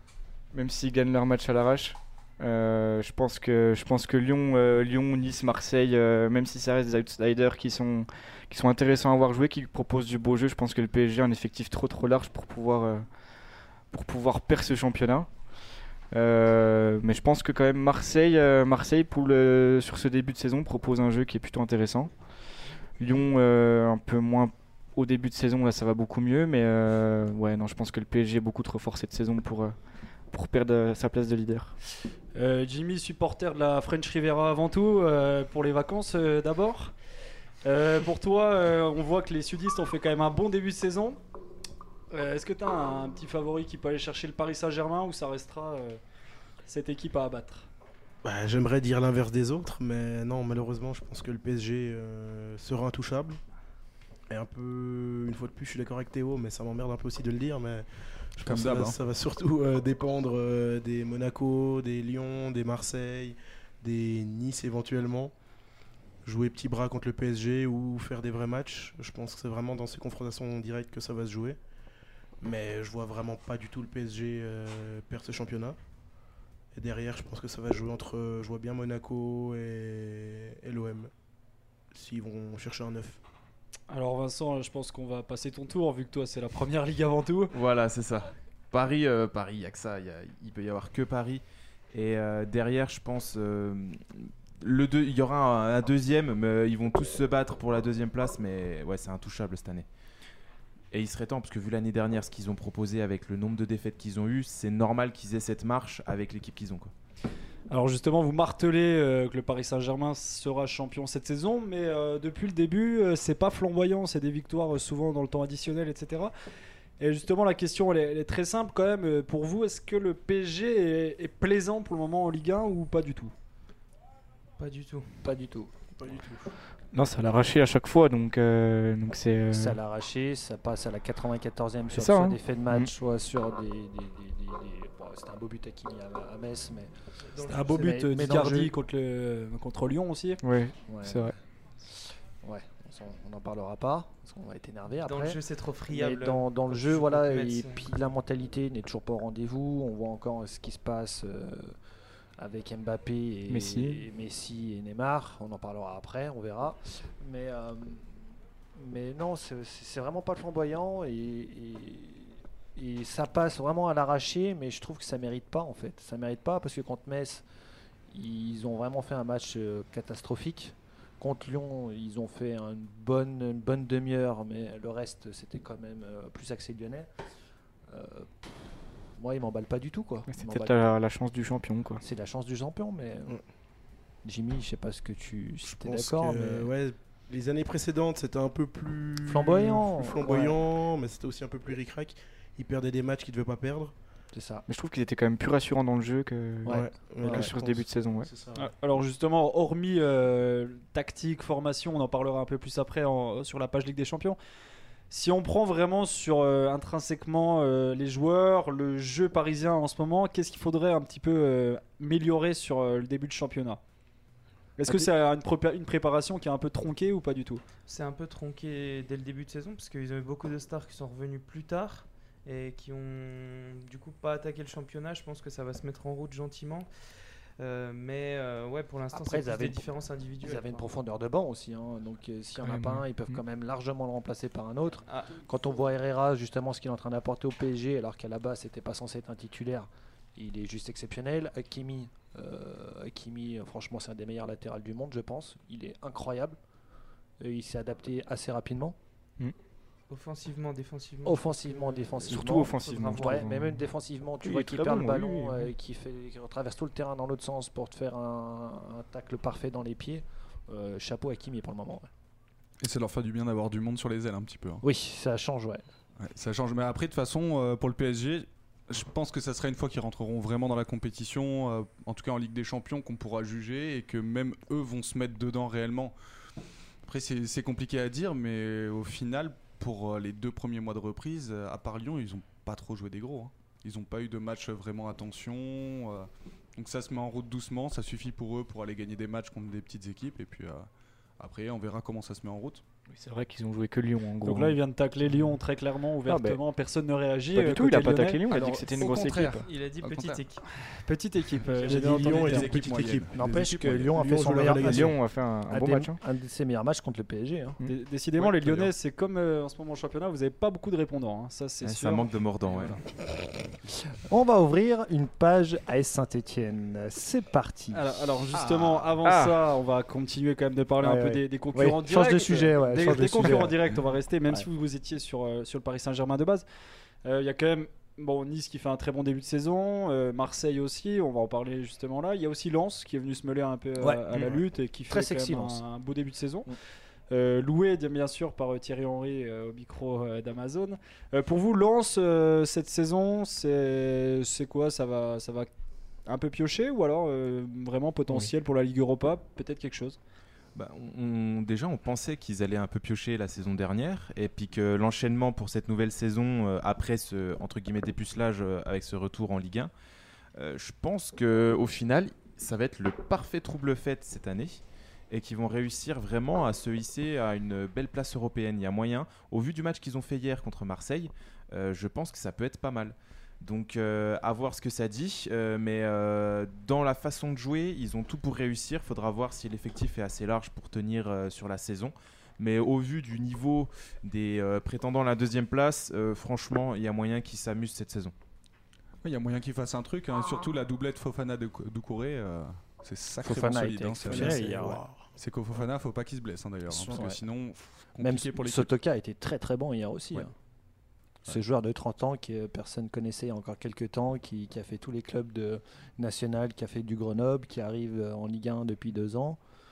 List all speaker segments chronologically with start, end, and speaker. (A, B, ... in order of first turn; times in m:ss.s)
0:00.5-0:13.1 A
0:13.9-0:15.3 A
0:16.1-0:22.1 A
0:23.0-0:29.8 A
0:30.3-0:31.7 A
0:32.4-0:36.9 B
0:37.6-0:41.2 B
0:42.1-0:46.0 B
0:46.7-0:47.7 B
0:48.2-0:53.4 C
0:54.3-1:05.3 C
0:58.4-0:59.0 D
1:06.2-1:11.6 C
1:12.4-1:15.8 C
1:16.7-1:21.1 C
1:21.9-1:23.2 C
1:23.9-1:27.5 B
1:27.5-1:39.9 E
1:40.9-1:46.9 E
1:47.7-1:56.3 B
1:57.0-2:03.3 B
2:04.6-2:05.1 F
2:05.2-2:05.7 G
2:06.0-2:06.5 C
2:06.9-2:09.8 A
2:09.5-2:16.9 G
2:11.9-2:12.9 A
2:17.3-2:17.9 F
2:17.4-2:18.7 G
2:17.5-2:20.4 B
2:20.4-2:21.4 A
2:20.9-2:21.3 G
2:22.4-2:25.4 G
2:25.0-2:27.9 F
2:25.9-2:31.8 G
2:32.4-2:38.1 G
2:33.5-2:34.0 A
2:38.8-2:47.4 G
2:48.1-2:57.1 G
2:57.9-3:00.8 G
3:00.3-3:02.0 A
3:02.0-3:03.4 G
3:04.2-3:06.7 G
3:05.6-3:13.9 C
3:09.2-3:10.6 G
3:14.3-3:14.6 G
3:14.7-3:18.3 A
3:16.6-3:17.5 G
3:16.7-3:18.7 C
3:18.6-3:24.4 B
3:25.1-3:33.8 B
3:34.8-3:37.6 B
3:37.9-3:46.9 F
3:47.6-3:50.9 F
3:49.1-3:49.9 G
3:50.4-4:06.6 G
3:52.6-3:53.4 A
3:55.1-3:55.4 F
4:07.4-4:09.0 G
4:10.1-4:13.5 F
4:11.2-4:22.1 G
4:12.3-4:13.8 A
4:14.4-4:15.7 A
4:22.8-4:24.8 D
4:24.8-4:25.8 G
4:26.2-4:36.2 D
4:37.1-4:52.8 D
4:53.1-4:54.8 A
4:54.4-4:58.5 B
4:56.3-4:56.6 A
4:57.5-4:59.7 A
4:58.5-5:00.4 D
4:59.0-5:00.6 F
5:01.1-5:02.8 B
5:01.9-5:04.2 D
5:01.9-5:05.2 C
5:03.3-5:05.2 G
5:04.8-5:06.2 A
5:05.7-5:07.8 G
5:07.8-5:13.0 B
5:08.4-5:08.9 D
5:11.8-5:13.0 E
5:14.3-5:18.1 G
5:17.9-5:26.6 B
5:19.2-5:19.6 A
5:21.0-5:23.8 G
5:27.2-5:36.7 B
5:34.0-5:34.4 G
5:35.1-5:35.8 G
5:37.3-5:45.7 B
5:46.3-5:50.2 B
5:50.8-5:59.9 E
6:00.6-6:28.3 E
6:29.2-6:38.9 D
6:33.4-6:35.0 G
6:34.2-6:35.3 C
6:36.9-6:37.4 G
6:38.2-6:40.5 G
6:41.5-6:49.6 G